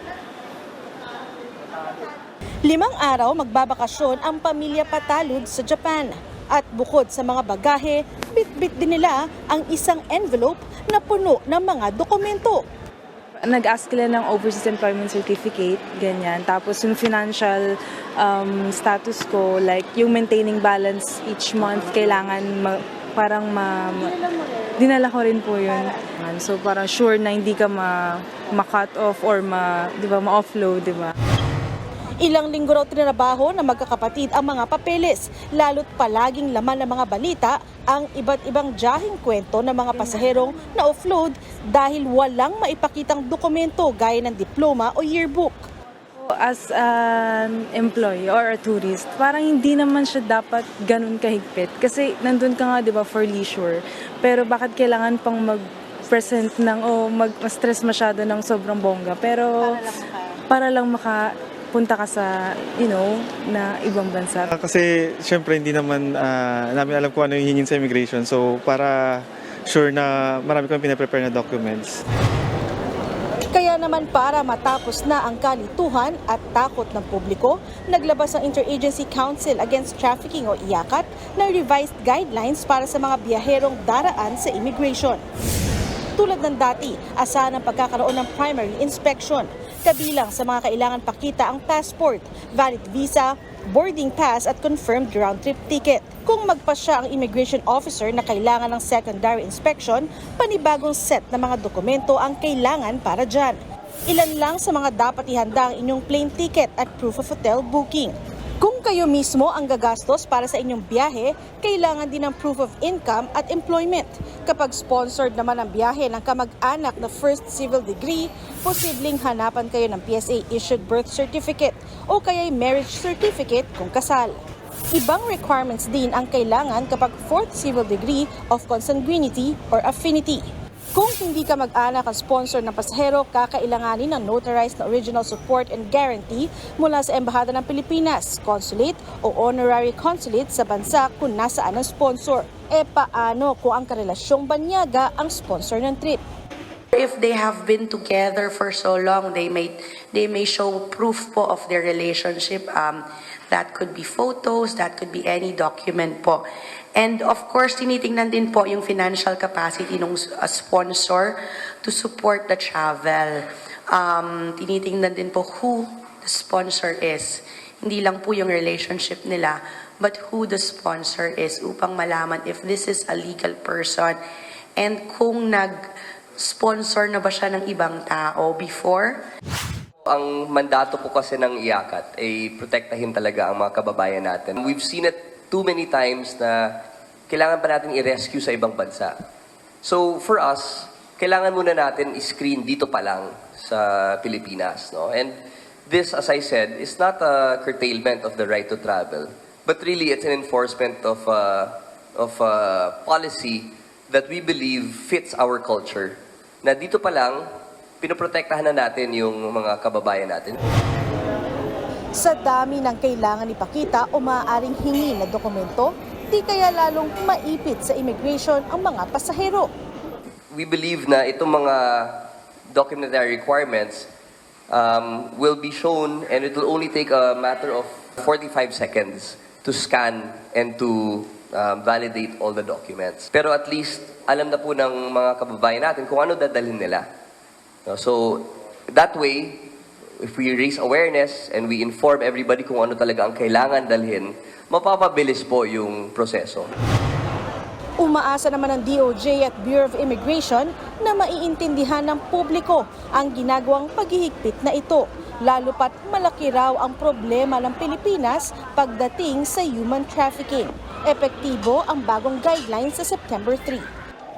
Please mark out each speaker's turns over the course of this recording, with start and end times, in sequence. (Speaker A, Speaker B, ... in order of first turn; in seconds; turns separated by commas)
Speaker A: 2.6-12.7, Speaker B: 13.4-24.2, Speaker B: 24.8-31.1, Speaker A: 32.2-45.7, Speaker B: 39.9-40.4, Speaker B: 46.2-64.5, Speaker C: 64.5-72.0, Speaker A: 73.5-85.2, Speaker A: 86.2-124.4, Speaker A: 124.9-146.2, Speaker D: 146.9-156.4, Speaker D: 157.0-174.2, Speaker D: 174.8-175.8, Speaker D: 176.4-179.2, Speaker E: 180.1-186.6, Speaker E: 187.3-189.2, Speaker E: 189.8-195.4, Speaker E: 195.9-207.4, Speaker E: 208.0-210.6, Speaker A: 212.2-219.7, Speaker E: 220.5-224.1, Speaker E: 224.7-237.1, Speaker E: 237.9-239.7, Speaker E: 240.2-246.7, Speaker A: 248.0-263.9